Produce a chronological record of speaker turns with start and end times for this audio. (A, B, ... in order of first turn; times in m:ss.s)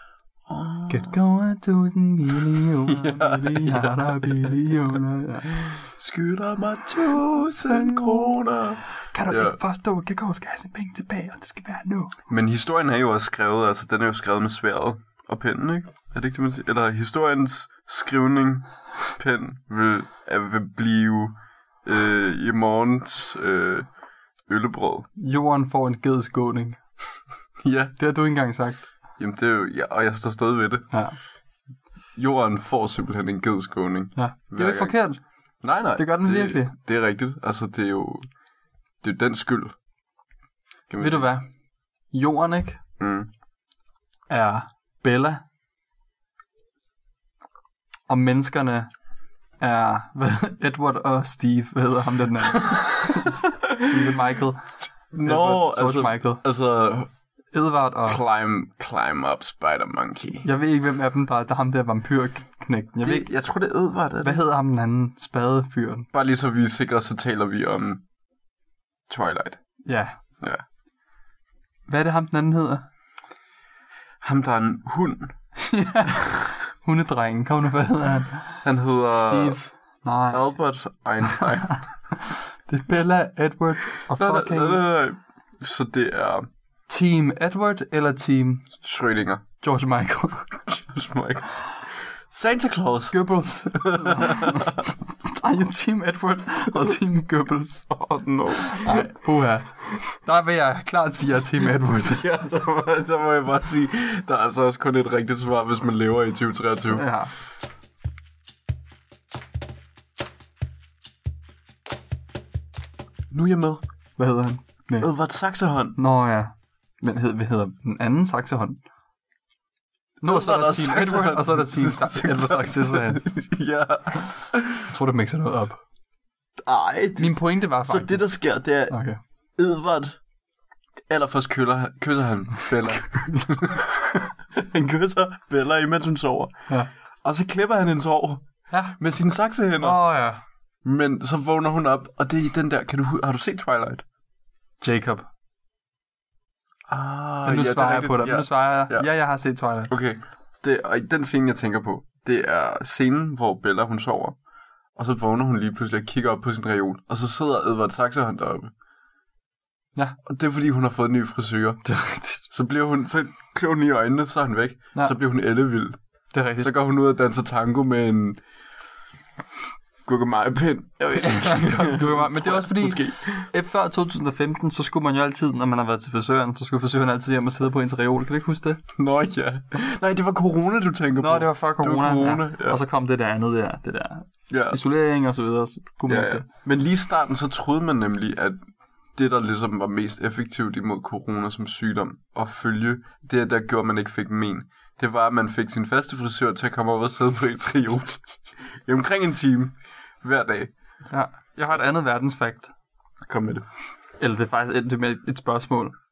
0:00.5-0:01.2 A
0:00.9-0:05.7 B
0:02.6-0:04.6 A
0:05.5-0:09.6 A
0:07.7-0:08.4 B
0:09.0-0:12.2 B
0:12.3-0:23.9 A
0:24.5-0:25.1 A
0:25.2-0:26.8 B
0:27.6-0:28.0 A
0:28.0-0:28.9 B
0:29.2-0:30.9 A
0:30.9-0:31.2 B
0:32.2-0:35.0 A
0:34.2-0:35.2 B
0:35.6-0:38.3 A
0:36.0-0:36.8 B
0:39.0-0:39.7 A
0:40.9-0:41.3 A
0:41.0-0:41.5 B
0:42.1-0:42.8 B
0:43.0-0:43.3 A
0:44.3-0:45.4 B
0:48.1-0:48.9 B
0:49.6-0:54.7 B
0:55.1-0:57.1 A
0:55.2-0:56.4 B
0:57.5-0:58.2 B
0:58.1-1:00.5 A
1:00.4-1:03.3 B
1:03.0-1:04.4 A
1:04.2-1:06.1 B
1:06.1-1:08.0 A
1:09.1-1:09.6 A
1:09.8-1:10.2 B
1:11.9-1:12.9 B
1:14.2-1:15.3 A
1:15.6-1:20.5 B
1:18.6-1:19.6 A
1:20.3-1:21.8 A
1:21.2-1:24.8 B
1:24.2-1:26.5 A
1:26.9-1:28.7 B
1:28.8-1:29.4 A
1:29.6-1:30.6 B
1:30.7-1:34.9 A
1:33.1-1:37.9 B
1:37.9-1:39.1 A
1:38.7-1:42.2 B
1:41.6-1:47.1 A
1:46.9-1:47.3 B
1:53.3-1:53.8 A
1:54.2-1:55.1 B
1:55.0-1:56.0 A
1:56.0-1:58.8 B
2:00.2-2:03.3 B
2:00.2-2:04.9 A
2:04.8-2:05.8 B
2:06.6-2:09.0 A
2:07.2-2:08.2 B
2:08.9-2:09.2 B
2:09.6-2:10.2 A
2:11.1-2:16.5 A
2:13.0-2:13.6 B
2:17.2-2:18.4 A
2:18.7-2:19.0 B
2:19.0-2:20.0 A
2:19.8-2:20.4 B
2:20.8-2:24.0 A
2:24.8-2:25.3 B
2:26.9-2:29.1 A
2:27.4-2:29.9 B
2:29.9-2:34.4 A
2:35.0-2:38.7 A
2:40.2-2:41.8 A
2:41.8-2:42.4 B
2:42.5-2:46.0 A
2:46.3-2:46.7 B
2:46.6-2:48.4 A
2:50.0-2:53.5 A
2:51.1-2:58.8 B
2:58.9-3:02.8 A
3:01.2-3:06.5 B
3:04.5-3:04.8 A
3:06.1-3:08.6 A
3:09.2-3:20.7 A
3:21.1-3:22.7 B
3:23.2-3:23.7 A
3:24.2-3:26.0 B